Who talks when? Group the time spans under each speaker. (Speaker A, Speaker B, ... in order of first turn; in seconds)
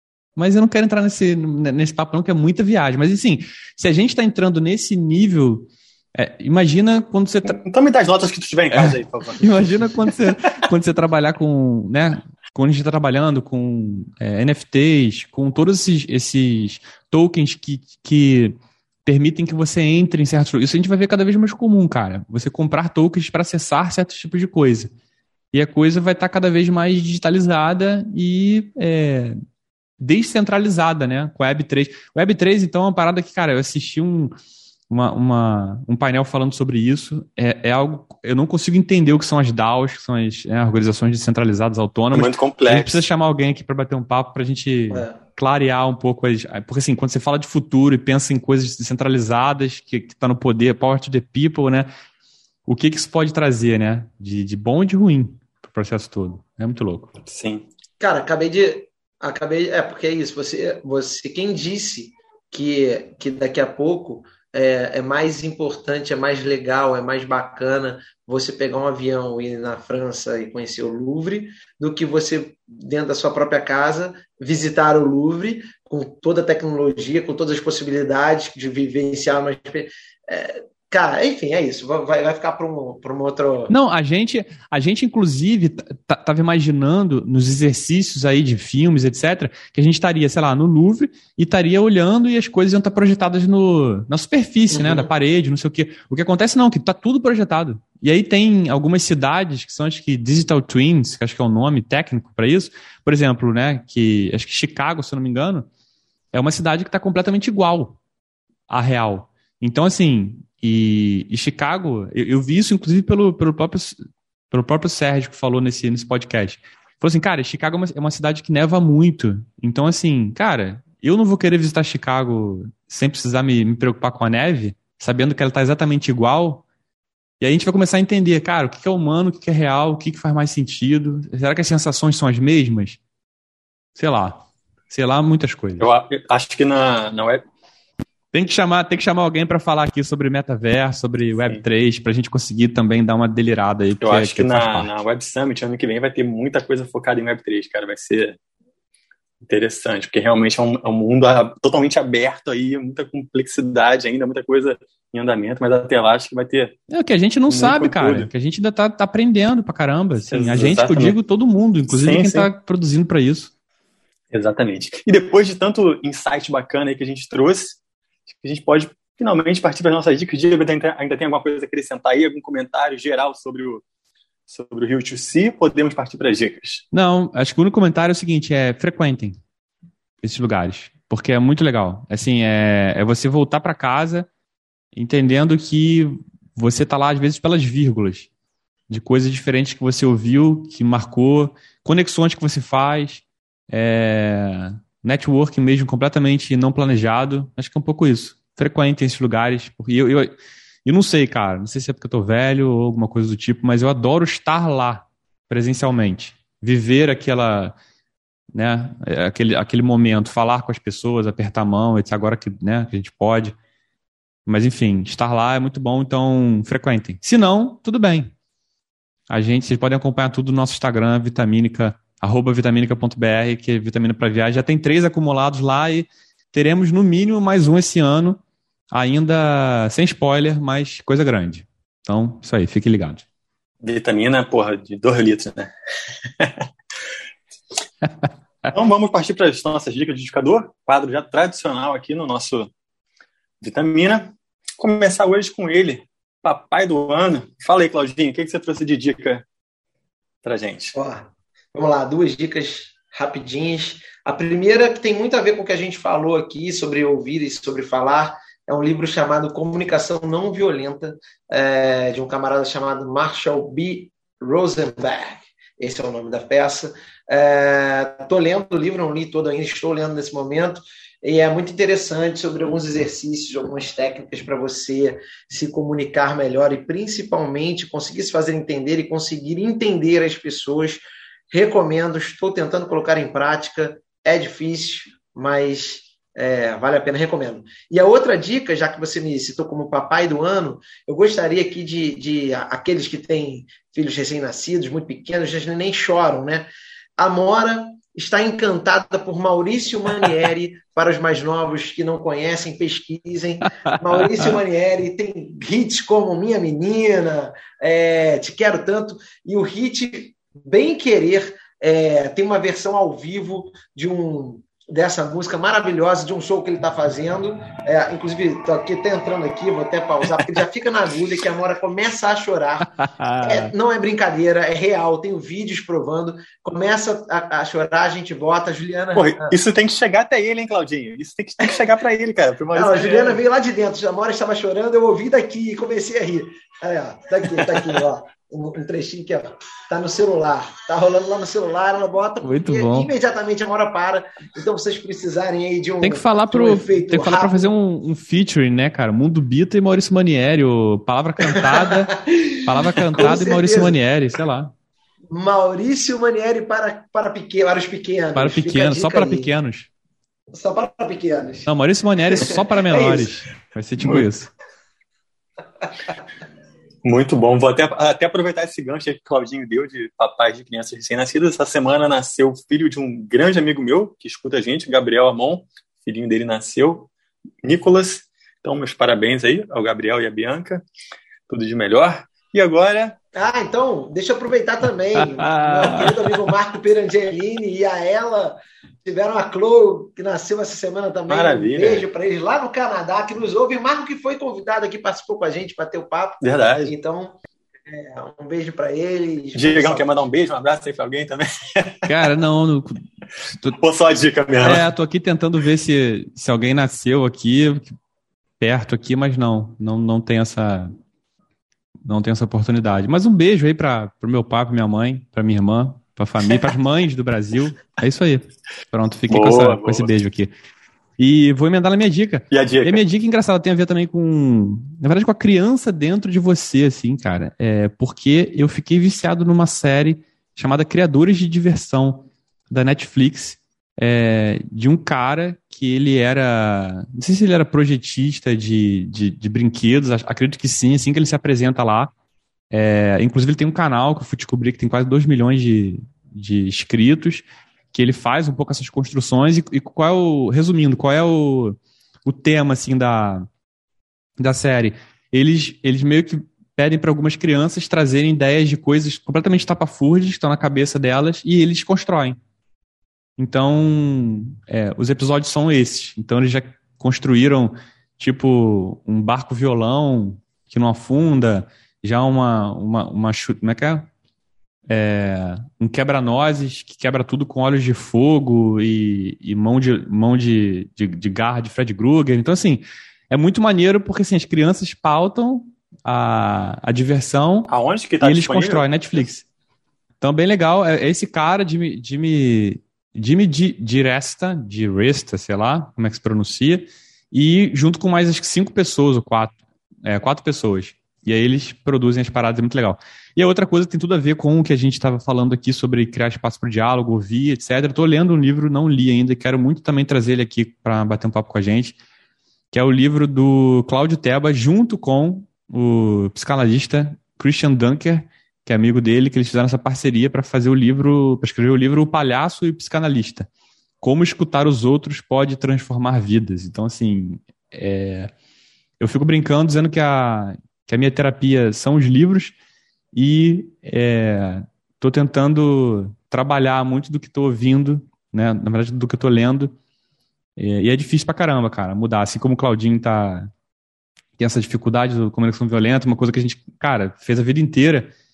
Speaker A: 0.3-7.6, 8.7-24.9, 25.5-29.4, 30.0-34.3, 34.9-51.9, 52.6-57.1, 83.7-105.7, 106.3-108.0, 108.7-114.0, 114.5-126.6, 127.4-133.0, 133.9-135.9, 138.3-144.9, 156.9-163.5, 176.9-179.4, 180.2-184.3, 184.9-188.3, 188.9-200.3, 200.8-207.8, 208.5-213.6, 214.4-218.3, 219.3-228.4, 228.9-233.2, 303.9-304.5, 323.0-323.7, 342.4-343.1, 346.0-354.7, 358.3-359.9, 361.6-364.5, 385.2-386.3, 402.1-403.7, 404.6-407.9, 408.6-410.9, 412.0-420.5, 421.2-442.1, 442.7-453.5, 454.4-462.4, 463.4-474.1, 474.9-489.4, 490.2-512.0, 512.7-523.5, 524.0-528.3, 529.0-532.5, 533.1-539.8, 540.6-543.5, 544.4-548.1
Speaker B: 7.4-10.4, 42.1-43.0, 57.2-57.7, 135.8-137.4, 144.0-148.4, 149.4-156.8, 157.5-158.3, 160.3-161.2, 161.9-162.5, 164.3-167.8, 168.4-173.8, 174.5-176.8, 233.8-235.7, 236.4-236.7, 238.7-242.7, 243.6-249.4, 250.4-250.9, 329.1-333.4, 364.0-364.3, 367.0-377.1, 377.6-380.8, 381.5-383.2, 391.3-392.0, 396.4-396.9, 399.5-402.1, 403.8-404.8, 419.3-420.1, 422.5-423.0, 487.7-489.3
Speaker C: 44.9-45.2, 58.0-83.7, 94.7-95.1, 250.9-329.5, 332.7-347.7, 351.5-354.0, 355.3-359.5, 360.5-361.7, 362.3-363.3, 383.3-397.4, 397.9-400.1